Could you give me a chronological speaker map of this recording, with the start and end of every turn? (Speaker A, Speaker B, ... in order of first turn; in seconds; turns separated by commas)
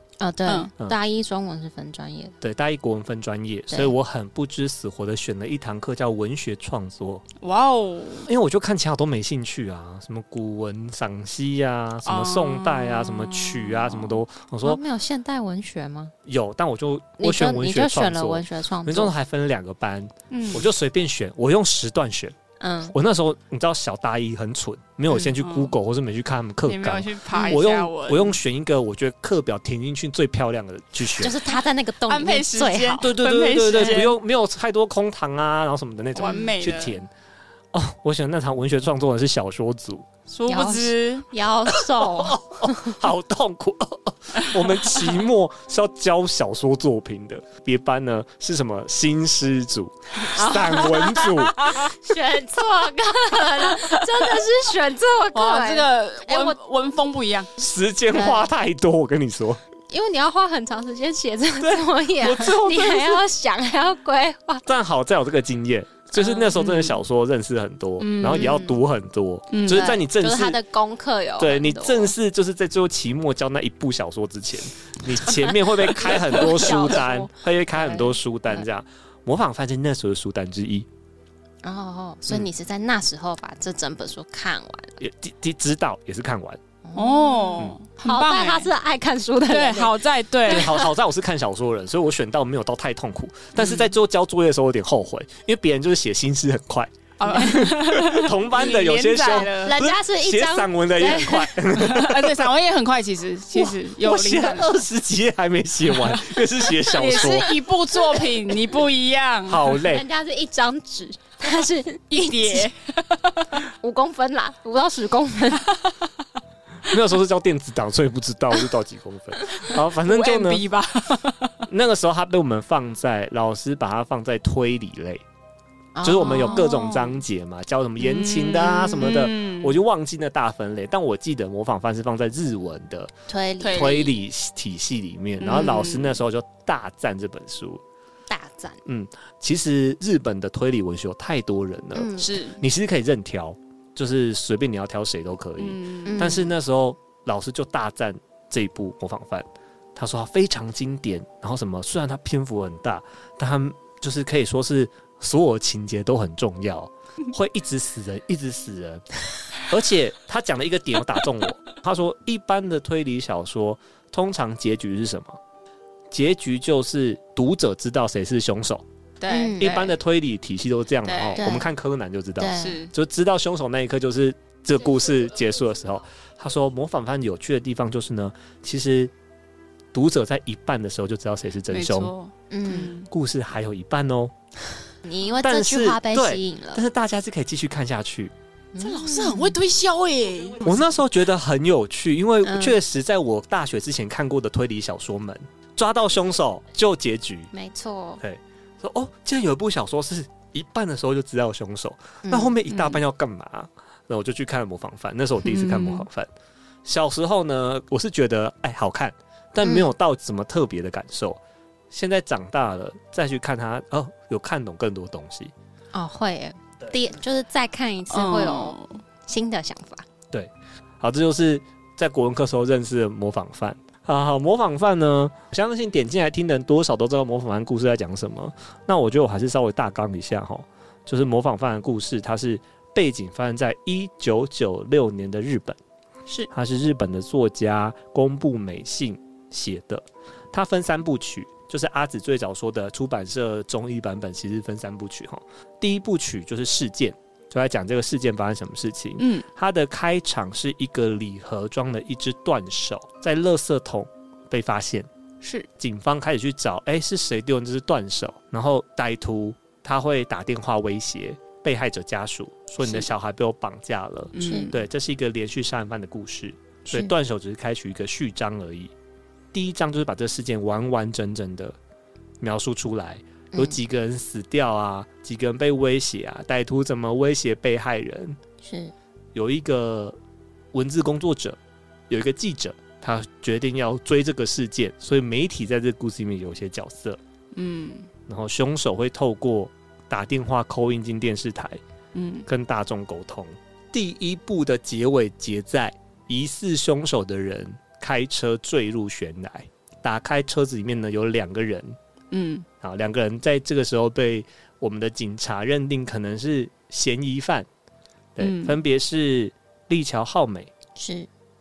Speaker A: 0.2-2.3, Speaker B: 0.5-0.7, Speaker C: 2.4-7.2, Speaker B: 7.4-8.3, Speaker C: 8.3-14.8, Speaker B: 12.0-13.9, Speaker A: 14.6-16.1, Speaker C: 16.2-22.3, Speaker A: 17.2-19.1, Speaker B: 20.3-20.7, Speaker A: 22.6-22.9, Speaker C: 22.9-31.4, Speaker B: 25.1-25.7, Speaker B: 26.6-28.4, Speaker A: 27.3-27.6, Speaker A: 31.2-33.1, Speaker B: 32.1-34.1, Speaker C: 33.0-37.1, Speaker A: 33.8-34.0, Speaker B: 36.1-37.0, Speaker A: 36.2-36.5, Speaker C: 37.7-40.1, Speaker B: 40.3-41.2, Speaker A: 40.5-43.0, Speaker C: 41.7-51.9, Speaker A: 50.2-56.6, Speaker B: 55.3-57.5, Speaker C: 57.6-59.6, Speaker A: 58.1-58.5, Speaker A: 59.9-64.7, Speaker C: 61.6-63.2, Speaker C: 64.7-70.6, Speaker A: 66.2-66.5, Speaker B: 66.5-66.9, Speaker B: 68.0-68.7, Speaker A: 68.2-68.7, Speaker B: 69.5-70.0, Speaker A: 69.7-72.1, Speaker C: 71.4-80.9, Speaker A: 76.0-78.6, Speaker A: 81.6-85.0, Speaker C: 85.0-86.6, Speaker A: 86.8-90.8, Speaker B: 87.0-88.7, Speaker B: 89.5-90.8, Speaker C: 90.5-102.5, Speaker B: 93.5-93.9, Speaker B: 97.2-99.8, Speaker A: 99.5-101.5, Speaker B: 101.7-104.8, Speaker C: 103.6-107.6, Speaker B: 106.8-109.8, Speaker C: 109.5-110.0, Speaker A: 109.8-112.7, Speaker B: 112.1-113.5, Speaker A: 113.8-115.8, Speaker C: 116.9-120.6, Speaker B: 120.0-121.6, Speaker C: 121.7-125.2, Speaker A: 125.9-127.2, Speaker C: 126.0-133.1, Speaker B: 128.0-129.8, Speaker A: 133.3-134.1, Speaker B: 133.6-134.1, Speaker C: 133.7-137.8, Speaker B: 135.4-136.2, Speaker A: 138.3-138.8, Speaker C: 138.8-159.0, Speaker A: 141.9-142.4, Speaker B: 142.2-142.6, Speaker B: 145.6-146.4, Speaker A: 146.0-146.5, Speaker C: 159.6-165.4, Speaker C: 166.1-168.8, Speaker B: 169.2-169.9, Speaker A: 169.3-169.8, Speaker C: 169.6-179.1, Speaker B: 171.0-171.5, Speaker A: 171.4-171.7, Speaker A: 172.4-172.8, Speaker B: 172.6-172.9, Speaker C: 179.9-182.1, Speaker B: 181.7-183.1, Speaker A: 182.5-183.0, Speaker C: 183.0-184.3, Speaker A: 185.0-186.8, Speaker C: 185.4-188.3, Speaker A: 188.7-189.6, Speaker B: 188.8-190.8, Speaker C: 190.6-197.5, Speaker A: 192.4-192.8, Speaker A: 197.5-198.2, Speaker C: 198.2-206.3, Speaker A: 202.2-202.5, Speaker B: 202.7-203.0, Speaker B: 205.4-206.1, Speaker C: 206.8-211.4, Speaker C: 211.9-215.5, Speaker A: 215.9-220.0, Speaker B: 218.1-219.0, Speaker C: 220.3-235.8, Speaker C: 236.5-255.1, Speaker B: 249.2-249.4, Speaker B: 255.4-255.7, Speaker C: 255.8-268.9, Speaker B: 262.8-263.1, Speaker B: 264.3-264.8, Speaker A: 264.4-264.7, Speaker C: 269.5-271.8, Speaker C: 272.4-278.4, Speaker A: 278.6-278.9, Speaker C: 279.3-280.2, Speaker C: 280.7-287.2, Speaker B: 287.5-288.1, Speaker C: 288.3-291.8, Speaker B: 292.1-292.4, Speaker C: 292.5-302.0, Speaker B: 302.3-302.7, Speaker C: 302.8-307.7, Speaker C: 308.4-310.7, Speaker B: 308.4-308.8, Speaker A: 310.9-311.3